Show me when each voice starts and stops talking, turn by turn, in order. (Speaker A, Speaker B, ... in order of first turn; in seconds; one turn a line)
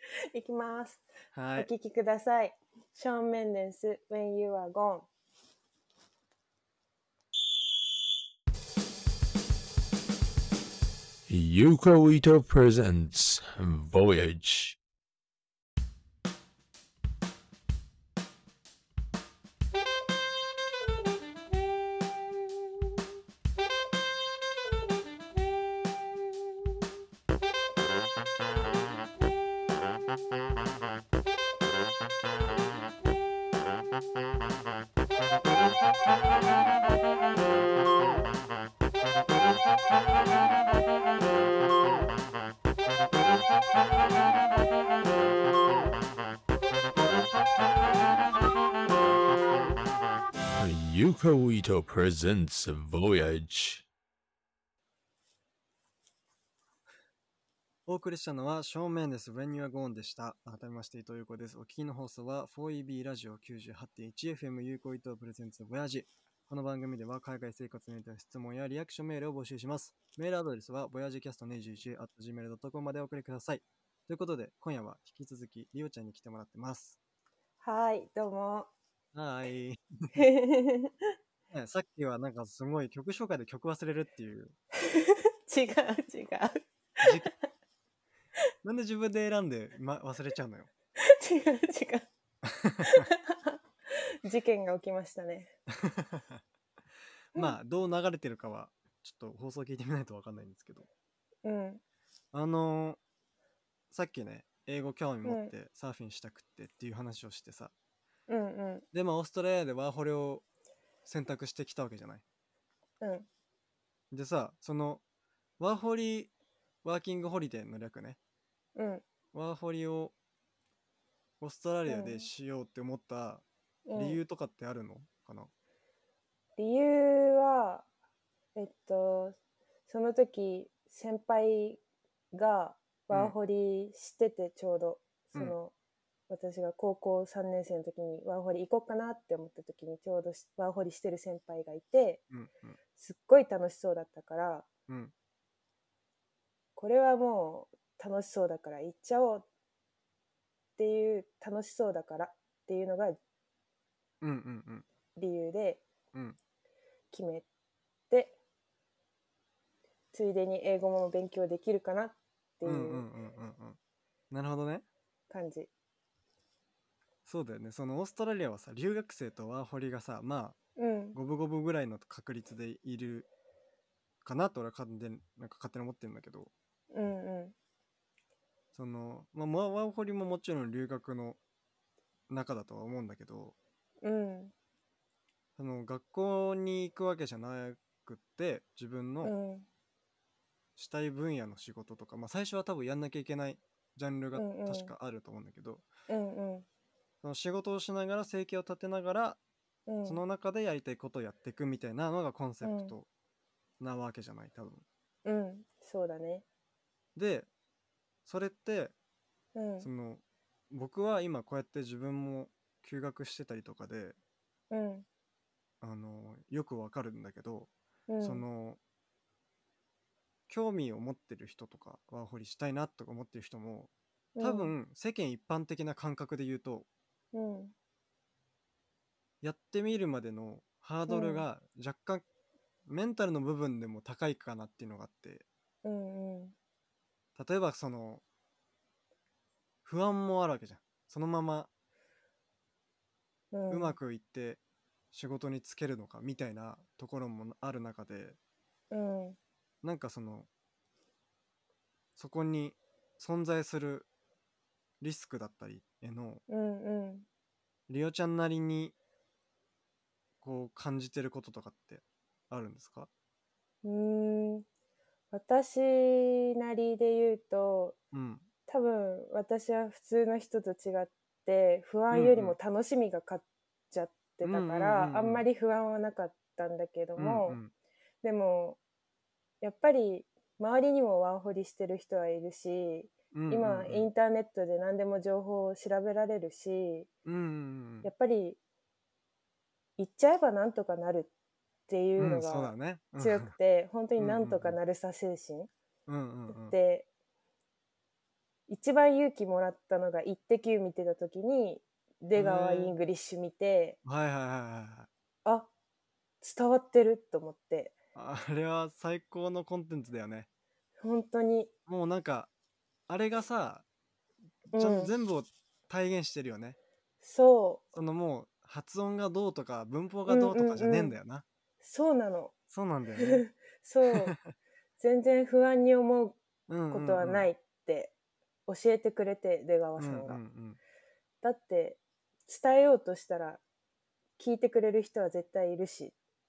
Speaker A: 0.3-1.1
Speaker B: 1.3-1.7
Speaker A: 1.6-5.1
Speaker C: 11.3-14.8
Speaker C: 50.6-53.9
Speaker B: 57.9-77.0
Speaker A: 77.6-78.7
Speaker B: 79.1-80.2
Speaker A: 80.2-81.1
Speaker B: 81.5-84.5
Speaker A: 84.8-87.3
Speaker B: 87.0-87.3
Speaker B: 88.6-90.7
Speaker A: 91.0-92.1
Speaker B: 92.4-93.0
Speaker A: 92.8-95.5
Speaker B: 95.8-96.4
Speaker B: 97.3-100.9
Speaker A: 101.4-101.8
Speaker B: 102.3-103.0
Speaker B: 103.9-107.7
Speaker A: 105.2-105.5
Speaker A: 108.3-108.9
Speaker B: 108.9-110.5
Speaker B: 111.0-112.2
Speaker A: 113.0-113.3
Speaker B: 114.1-115.0
Speaker B: 115.6-116.3
Speaker B: 116.8-118.2
Speaker A: 118.8-119.0
Speaker B: 119.3-120.1
Speaker B: 121.4-125.5
Speaker A: 121.9-122.3
Speaker A: 123.9-124.2
Speaker A: 126.6-127.9
Speaker A: 128.6-129.4
Speaker A: 129.9-131.8
Speaker A: 132.3-135.7
Speaker B: 133.1-133.4
Speaker A: 136.3-142.2
Speaker B: 142.3-142.8
Speaker A: 143.0-144.7
Speaker B: 144.9-145.1
Speaker A: 146.8-149.5
Speaker A: 150.8-153.2
Speaker B: 154.2-154.9
Speaker A: 155.2-155.8
Speaker A: 157.1-157.5
Speaker A: 158.1-158.4
Speaker A: 160.1-163.1
Speaker B: 162.6-163.8
Speaker B: 164.3-164.9
Speaker A: 165.3-165.7
Speaker B: 167.2-170.6
Speaker A: 170.8-171.2
Speaker B: 171.1-173.3
Speaker B: 174.2-176.5
Speaker A: 176.9-177.6
Speaker B: 178.7-181.4
Speaker B: 182.3-183.6
Speaker A: 184.0-184.5
Speaker B: 185.6-189.3
Speaker A: 189.2-189.7
Speaker B: 190.8-195.9
Speaker A: 194.3-194.9
Speaker A: 196.1-196.7
Speaker B: 197.2-199.4
Speaker A: 199.9-200.2
Speaker B: 200.0-203.1
Speaker A: 202.6-202.9
Speaker B: 203.8-204.8
Speaker A: 205.2-206.4
Speaker B: 207.2-207.5
Speaker B: 208.2-208.9
Speaker A: 209.6-209.9
Speaker B: 209.8-214.2
Speaker A: 214.7-215.1
Speaker B: 215.8-218.8
Speaker A: 218.1-218.4
Speaker B: 220.5-226.9
Speaker A: 224.4-224.7
Speaker A: 227.3-227.7
Speaker B: 229.4-232.2
Speaker A: 231.1-231.4
Speaker B: 232.9-235.4
Speaker A: 235.8-236.6
Speaker B: 237.4-238.2
Speaker B: 239.8-241.7
Speaker A: 243.5-244.0
Speaker B: 243.7-244.6
Speaker B: 245.1-248.4
Speaker A: 248.9-249.4
Speaker B: 249.8-250.5
Speaker B: 252.2-254.1
Speaker B: 255.0-256.4
Speaker A: 256.5-257.3
Speaker B: 257.9-258.9
Speaker B: 260.4-263.1
Speaker A: 263.8-264.7
Speaker A: 265.3-268.0
Speaker B: 268.1-268.5
Speaker A: 268.7-277.6
Speaker B: 272.1-272.6
Speaker B: 274.4-275.4
Speaker B: 277.2-277.7
Speaker A: 278.2-278.8
Speaker A: 279.6-287.1
Speaker B: 283.3-284.1
Speaker B: 287.2-288.1
Speaker A: 288.0-288.6
Speaker A: 290.0-291.3
Speaker A: 291.9-295.7
Speaker B: 292.2-293.5
Speaker B: 294.2-294.8
Speaker B: 296.1-296.8
Speaker A: 296.5-297.1
Speaker A: 298.7-304.0
Speaker B: 302.3-303.0
Speaker B: 304.1-305.1
Speaker A: 305.4-305.7
Speaker A: 306.4-307.9
Speaker B: 308.1-310.5
Speaker A: 311.0-311.7
Speaker B: 311.9-312.5
Speaker B: 313.1-313.9
Speaker A: 314.7-315.1
Speaker B: 314.7-316.8
Speaker A: 317.2-317.9
Speaker B: 317.9-321.4
Speaker A: 320.3-321.2
Speaker A: 321.8-322.5
Speaker B: 322.7-323.5
Speaker A: 323.2-324.4
Speaker B: 324.1-324.5
Speaker A: 325.0-326.4
Speaker B: 326.7-327.5
Speaker A: 326.9-328.1
Speaker A: 328.7-330.4
Speaker B: 330.0-330.8
Speaker A: 331.4-333.6
Speaker A: 334.4-336.1